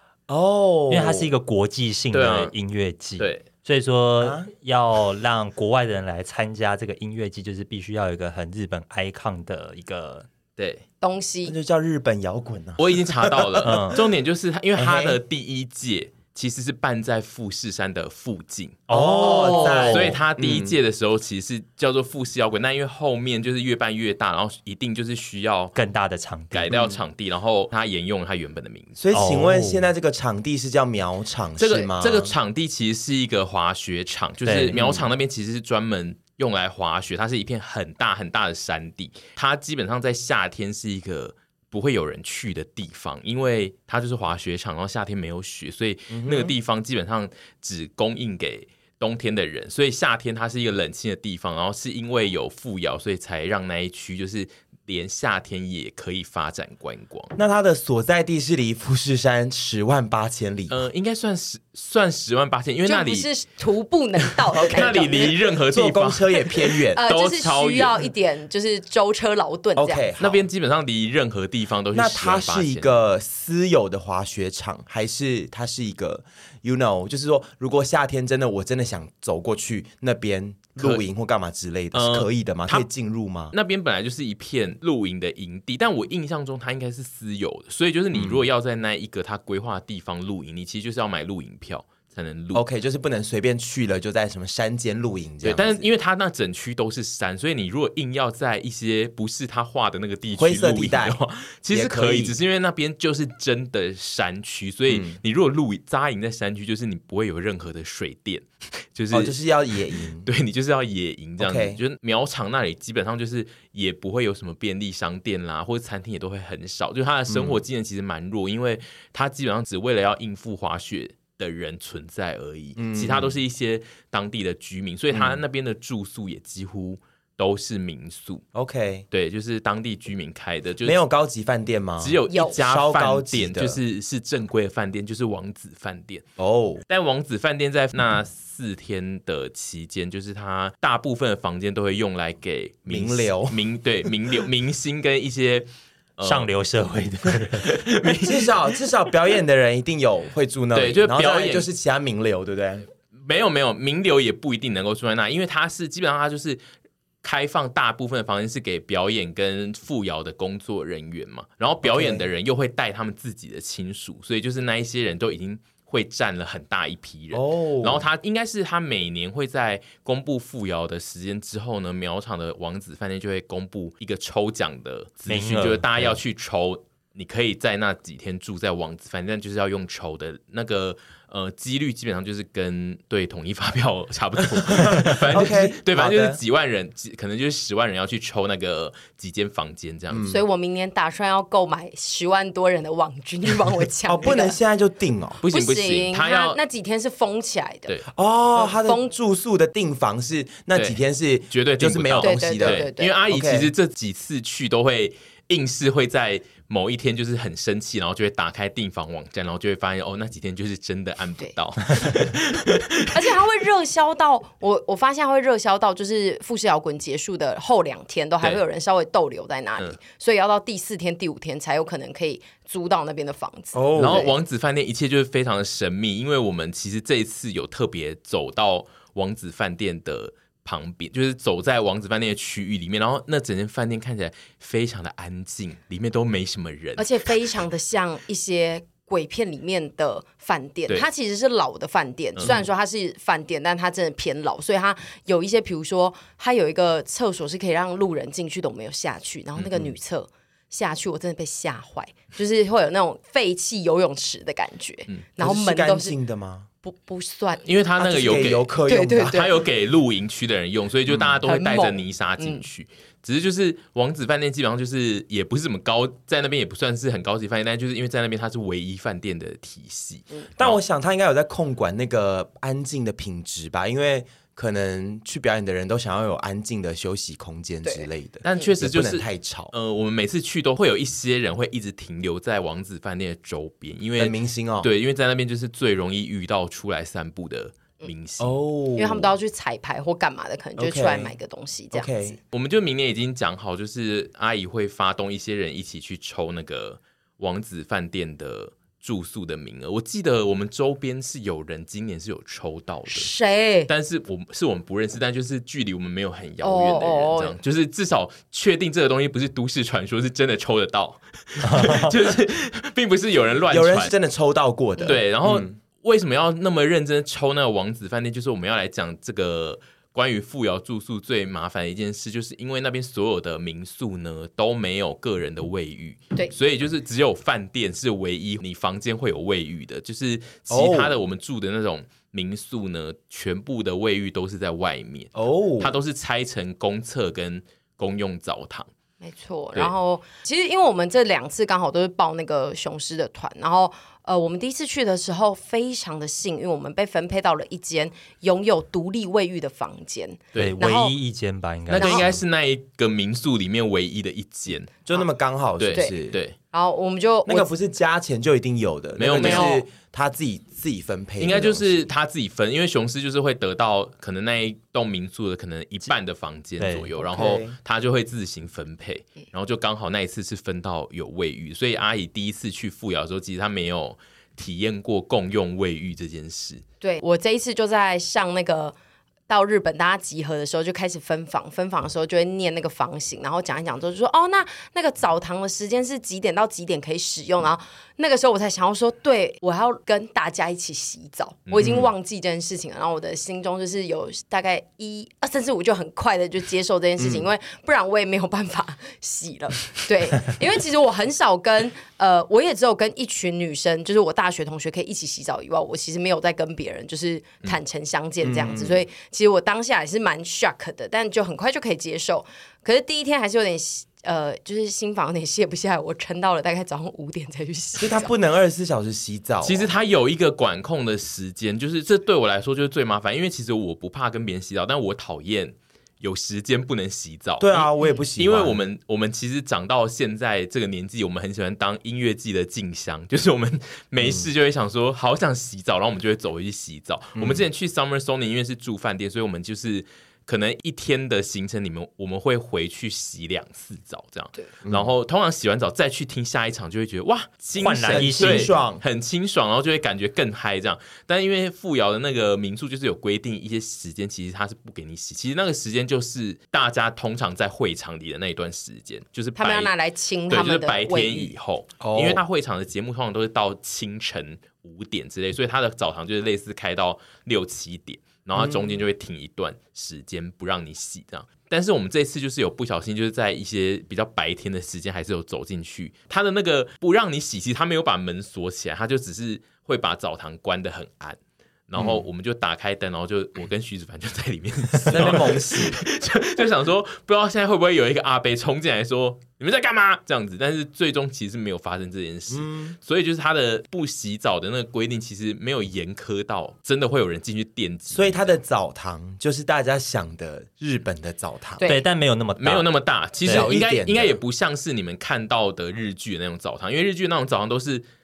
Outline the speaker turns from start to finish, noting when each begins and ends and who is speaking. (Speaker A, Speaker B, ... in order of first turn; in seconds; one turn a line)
Speaker A: 0.3-1.3
Speaker B: 0.9-10.3
Speaker C: 2.1-2.5
Speaker C: 3.2-3.5
Speaker A: 4.2-4.5
Speaker C: 10.6-10.8
Speaker D: 11.0-11.5
Speaker A: 11.5-14.0
Speaker C: 12.8-25.8
Speaker B: 13.6-14.0
Speaker A: 14.8-15.2
Speaker B: 18.9-20.2
Speaker A: 18.9-20.8
Speaker B: 25.8-26.8
Speaker C: 26.5-29.0
Speaker A: 26.7-27.0
Speaker A: 29.0-32.3
Speaker B: 29.1-29.9
Speaker C: 31.6-57.3
Speaker B: 34.5-34.8
Speaker A: 34.7-35.1
Speaker A: 46.1-46.5
Speaker A: 57.4-60.8
Speaker C: 60.7-63.3
Speaker D: 62.9-65.3
Speaker C: 64.5-68.1
Speaker A: 64.5-67.0
Speaker D: 66.9-70.1
Speaker A: 69.8-70.4
Speaker C: 70.2-72.9
Speaker A: 71.9-83.5
Speaker C: 80.8-81.0
Speaker C: 81.9-82.9
Speaker C: 83.5-92.6
Speaker A: 88.1-88.4
Speaker A: 92.5-95.8
Speaker C: 95.4-109.3
Speaker A: 100.4-101.2
Speaker A: 101.7-102.4
Speaker A: 104.9-105.2
Speaker A: 109.1-110.3
Speaker C: 110.2-128.4
Speaker A: 111.4-111.8
Speaker A: 117.3-117.6
Speaker A: 122.8-123.4
Speaker A: 125.1-125.4
Speaker A: 128.5-129.1
Speaker C: 129.1-131.0
Speaker A: 130.8-133.8
Speaker C: 132.0-136.3
Speaker D: 132.3-132.6
Speaker A: 136.4-136.8
Speaker C: 136.9-146.5
Speaker A: 142.9-143.6
Speaker B: 146.2-147.8
Speaker C: 147.6-148.5
Speaker A: 148.2-152.9
Speaker C: 150.7-151.7
Speaker C: 153.2-156.6
Speaker C: 157.2-190.3
Speaker A: 161.8-162.3
Speaker A: 167.3-168.1
Speaker B: 175.3-175.9
Speaker A: 184.6-186.4
Speaker A: 190.1-190.4
Speaker D: 190.3-194.6
Speaker A: 194.1-195.4
Speaker C: 195.4-196.6
Speaker D: 195.5-197.9
Speaker A: 198.1-203.7
Speaker D: 198.6-199.1
Speaker C: 200.7-201.0
Speaker C: 201.5-213.3
Speaker D: 202.2-203.1
Speaker D: 213.1-224.3
Speaker A: 223.7-224.3
Speaker C: 223.9-237.4
Speaker D: 237.0-256.2
Speaker C: 249.6-249.9
Speaker A: 255.4-256.7
Speaker D: 256.8-257.6
Speaker C: 257.6-258.7
Speaker A: 258.0-259.4
Speaker D: 258.9-259.5
Speaker C: 259.2-270.8
Speaker A: 261.1-261.4
Speaker D: 261.5-262.6
Speaker A: 270.6-279.7
Speaker C: 278.4-288.6
Speaker A: 284.2-284.9
Speaker A: 288.4-289.3
Speaker D: 289.0-292.4
Speaker A: 290.8-291.4
Speaker A: 291.9-292.4
Speaker C: 292.5-303.3
Speaker D: 303.1-303.9
Speaker C: 303.9-314.1
Speaker D: 306.6-307.6
Speaker B: 311.6-312.1
Speaker A: 313.7-315.7
Speaker C: 315.0-338.9
Speaker A: 330.7-331.1
Speaker A: 335.4-335.9
Speaker D: 339.2-351.1
Speaker B: 350.6-352.2
Speaker C: 351.9-355.0
Speaker D: 352.0-352.3
Speaker A: 355.1-356.4
Speaker C: 355.8-356.6
Speaker D: 356.7-357.7
Speaker A: 357.5-362.1
Speaker C: 359.2-359.8
Speaker D: 359.2-359.8
Speaker C: 361.4-376.8
Speaker B: 366.8-367.1
Speaker A: 367.2-367.8
Speaker D: 377.0-378.9
Speaker D: 379.5-418.3
Speaker C: 391.7-392.0
Speaker A: 391.8-392.1
Speaker A: 397.2-397.5
Speaker A: 408.4-409.0
Speaker A: 418.0-419.9
Speaker C: 419.6-459.9
Speaker A: 427.6-428.8
Speaker A: 437.4-437.7
Speaker A: 444.9-445.1
Speaker B: 447.8-448.7
Speaker A: 448.1-449.0
Speaker D: 459.6-461.5
Speaker C: 460.5-498.5
Speaker A: 462.0-462.4
Speaker A: 468.6-469.0
Speaker A: 482.0-482.2
Speaker A: 485.1-486.0
Speaker A: 492.5-492.9
Speaker A: 498.1-501.9
Speaker D: 501.8-502.0
Speaker B: 501.8-502.9
Speaker C: 502.6-508.0
Speaker B: 503.4-503.7
Speaker A: 503.5-504.4